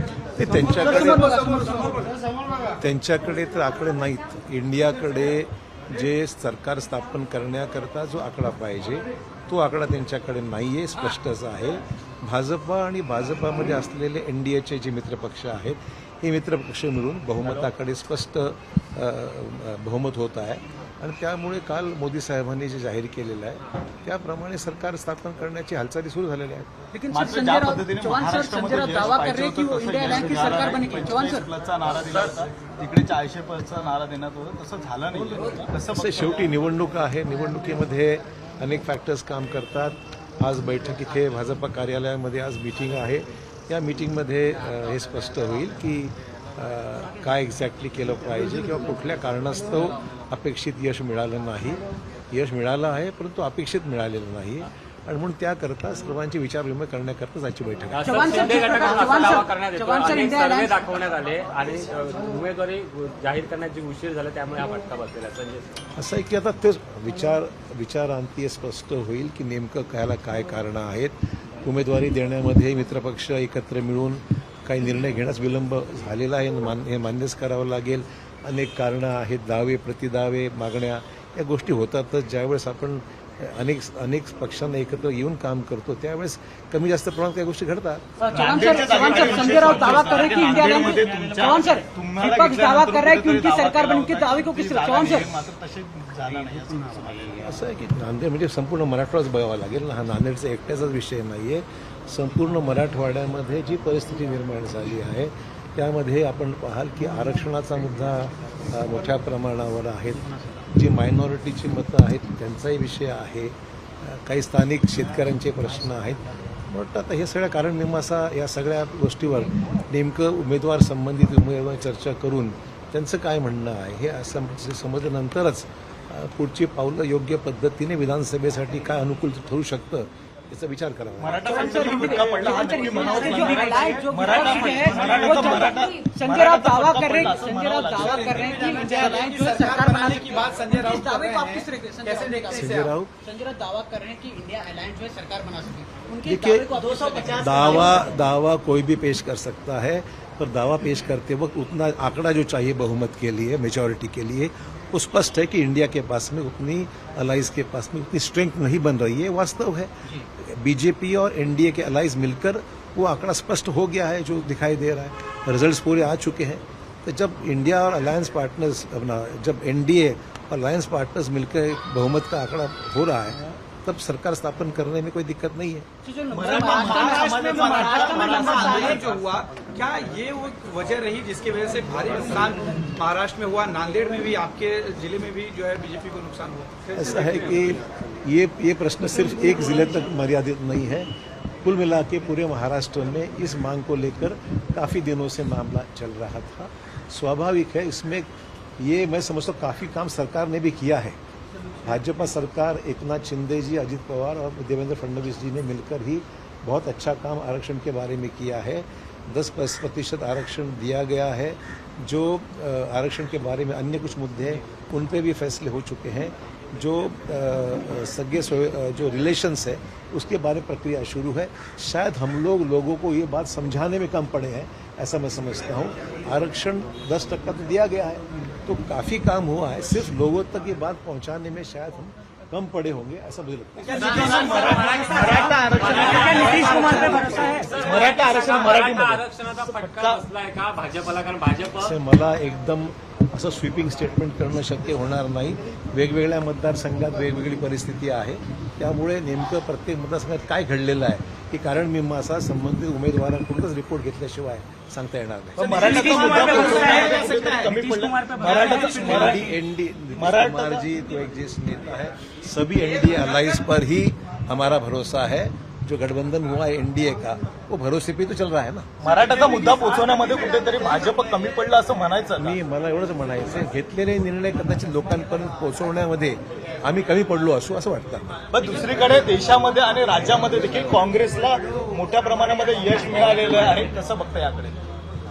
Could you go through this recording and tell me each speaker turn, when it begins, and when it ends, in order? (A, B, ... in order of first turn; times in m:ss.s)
0:00.4-0:01.8 A
0:00.7-0:02.1 B
0:02.8-0:26.7 A
0:26.9-0:31.5 B
0:27.1-0:36.6 C
0:35.9-0:58.4 A
0:57.9-1:05.7 D
0:58.0-1:00.8 B
1:06.0-1:28.2 A
1:28.2-1:35.3 B
1:28.3-1:37.6 C
1:37.4-2:11.8 A
2:11.2-2:18.9 C
2:11.4-2:28.1 B
2:18.1-2:22.7 E
2:22.5-2:23.1 A
2:26.2-2:26.7 A
2:27.2-2:55.9 A
2:56.0-2:59.1 B
2:56.3-2:59.2 C
2:58.8-3:07.7 E
3:06.9-3:11.1 A
3:11.6-3:18.3 A
3:18.8-3:21.2 A
3:21.8-3:54.2 A
3:53.9-3:57.1 C
3:53.9-3:57.7 B
3:54.0-4:02.0 D
3:57.7-4:00.2 C
4:01.8-4:16.4 A
4:15.6-4:19.5 C
4:15.6-4:19.3 E
4:15.7-4:19.4 B
4:18.9-4:29.1 A
4:20.2-4:20.9 C
4:29.0-4:32.6 C
4:32.4-4:38.3 A
4:38.5-4:44.8 C